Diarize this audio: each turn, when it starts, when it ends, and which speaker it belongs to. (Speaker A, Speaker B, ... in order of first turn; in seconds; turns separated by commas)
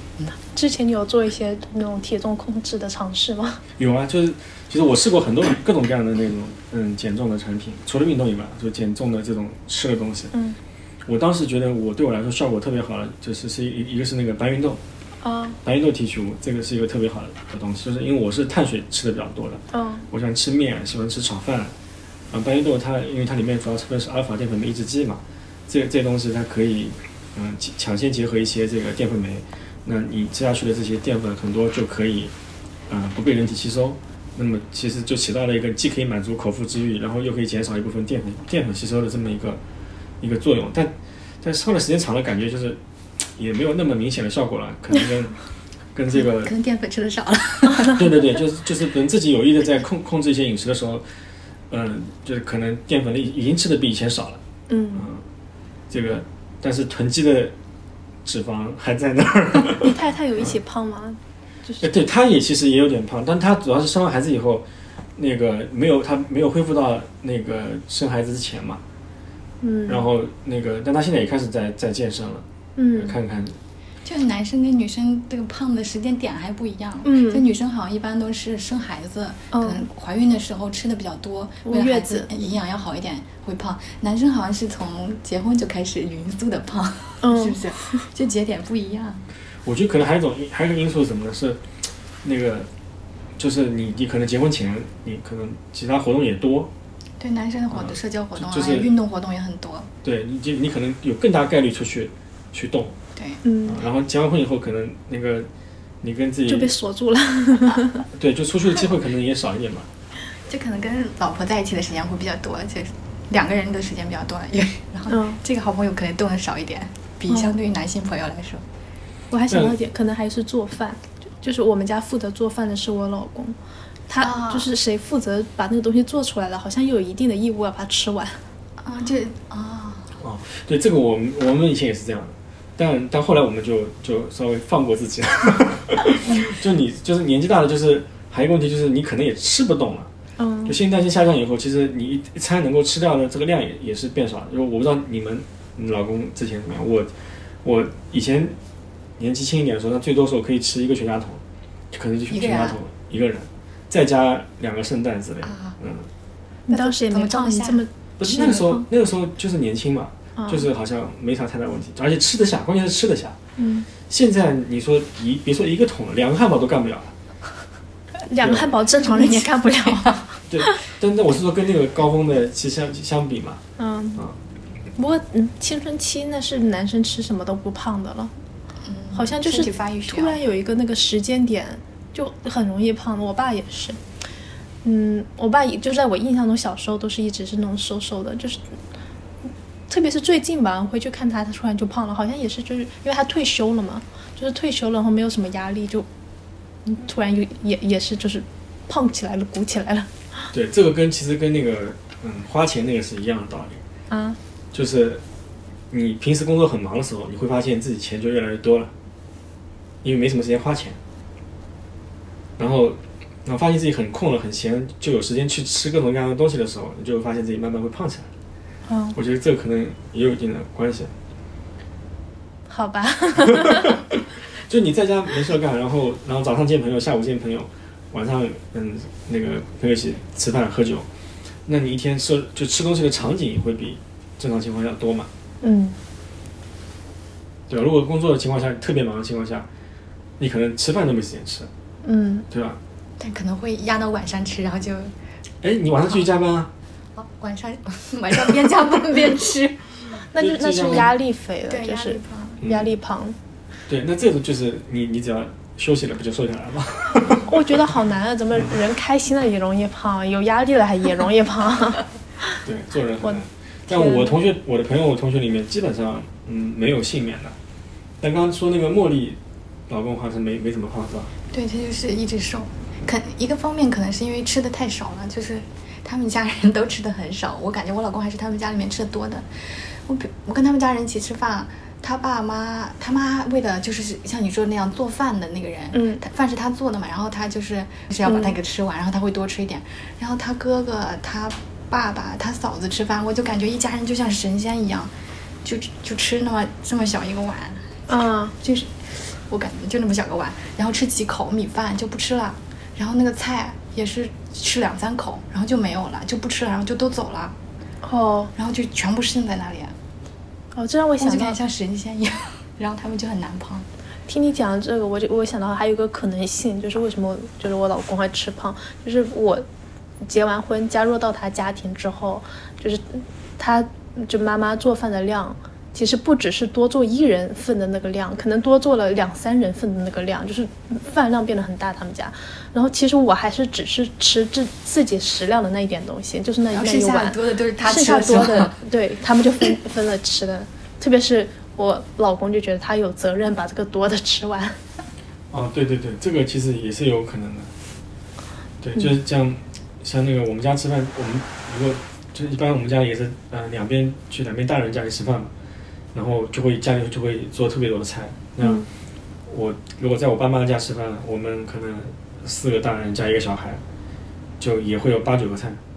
Speaker A: 0.3-3.6, Speaker B: 3.8-10.3, Speaker B: 11.1-14.8, Speaker A: 15.2-15.6, Speaker B: 15.6-21.7, Speaker A: 19.7-20.0, Speaker B: 22.3-32.3, Speaker B: 32.9-39.6, Speaker B: 40.2-42.8, Speaker B: 43.4-45.4, Speaker B: 45.9-46.5, Speaker C: 46.1-48.2, Speaker B: 47.9-51.0, Speaker B: 51.7-54.4, Speaker A: 54.7-55.1, Speaker B: 54.9-55.2, Speaker B: 55.9-57.5, Speaker B: 58.2-60.5, Speaker A: 59.7-61.9, Speaker B: 61.8-68.8, Speaker A: 69.6-70.1, Speaker B: 69.9-73.6, Speaker A: 72.8-73.2, Speaker C: 74.0-89.2, Speaker A: 77.0-77.4, Speaker A: 79.5-79.8, Speaker A: 81.7-82.3, Speaker A: 87.2-87.6, Speaker B: 89.6-91.6, Speaker B: 92.2-92.7, Speaker B: 93.4-96.7, Speaker C: 97.2-99.9, Speaker B: 97.7-98.9, Speaker B: 100.0-103.0, Speaker C: 103.2-103.4, Speaker A: 103.4-103.8, Speaker B: 103.7-105.5, Speaker B: 106.0-106.7, Speaker A: 106.5-108.0, Speaker B: 108.1-109.9, Speaker C: 110.5-118.6, Speaker A: 115.1-115.4, Speaker A: 119.3-123.6, Speaker B: 119.5-119.7, Speaker A: 124.1-128.4, Speaker C: 124.2-124.7, Speaker C: 128.8-130.1, Speaker B: 130.2-140.1, Speaker A: 140.4-140.8, Speaker B: 140.6-147.1, Speaker B: 147.6-148.6, Speaker B: 149.2-156.1, Speaker C: 152.3-152.8, Speaker C: 155.4-155.8, Speaker A: 156.7-158.8, Speaker C: 156.7-157.8, Speaker B: 158.2-163.4, Speaker A: 160.4-160.7, Speaker A: 163.6-163.9, Speaker B: 164.1-167.1, Speaker A: 168.2-170.8, Speaker B: 168.4-168.7, Speaker C: 169.0-170.2, Speaker B: 170.5-173.6, Speaker A: 173.8-174.2, Speaker A: 174.9-178.3, Speaker C: 178.8-180.4, Speaker A: 179.1-184.0, Speaker A: 184.8-188.7, Speaker A: 189.9-196.1, Speaker A: 196.8-200.1, Speaker B: 200.5-203.8, Speaker A: 204.1-204.4, Speaker B: 204.7-205.2, Speaker B: 205.9-208.9, Speaker B: 210.0-211.0, Speaker B: 212.6-218.3, Speaker A: 218.9-219.2, Speaker B: 219.1-221.1, Speaker A: 222.7-224.0, Speaker B: 223.5-231.1, Speaker B: 231.7-235.3, Speaker A: 235.6-236.0, Speaker B: 237.7-239.7, Speaker B: 240.4-241.7, Speaker A: 242.0-242.4, Speaker B: 242.5-242.8, Speaker C: 243.2-245.1, Speaker B: 245.6-246.7, Speaker C: 247.2-249.8, Speaker A: 250.3-253.3, Speaker B: 250.4-251.1, Speaker C: 251.7-252.6, Speaker B: 252.6-252.9, Speaker B: 253.9-257.8, Speaker A: 257.4-262.0, Speaker B: 262.6-267.5, Speaker A: 263.2-264.4, Speaker B: 268.2-271.3, Speaker C: 271.5-295.1, Speaker A: 285.9-286.2, Speaker A: 288.2-288.5, Speaker C: 295.6-297.9, Speaker A: 298.1-298.5, Speaker C: 298.6-307.6, Speaker A: 308.0-308.5, Speaker C: 308.6-309.9, Speaker A: 310.7-311.6, Speaker C: 311.2-313.9, Speaker A: 314.3-319.6, Speaker A: 320.2-344.8, Speaker C: 336.7-338.8, Speaker B: 345.5-347.7, Speaker B: 348.8-355.5, Speaker B: 356.1-358.8, Speaker A: 358.6-358.9, Speaker B: 359.5-363.8, Speaker B: 364.6-365.8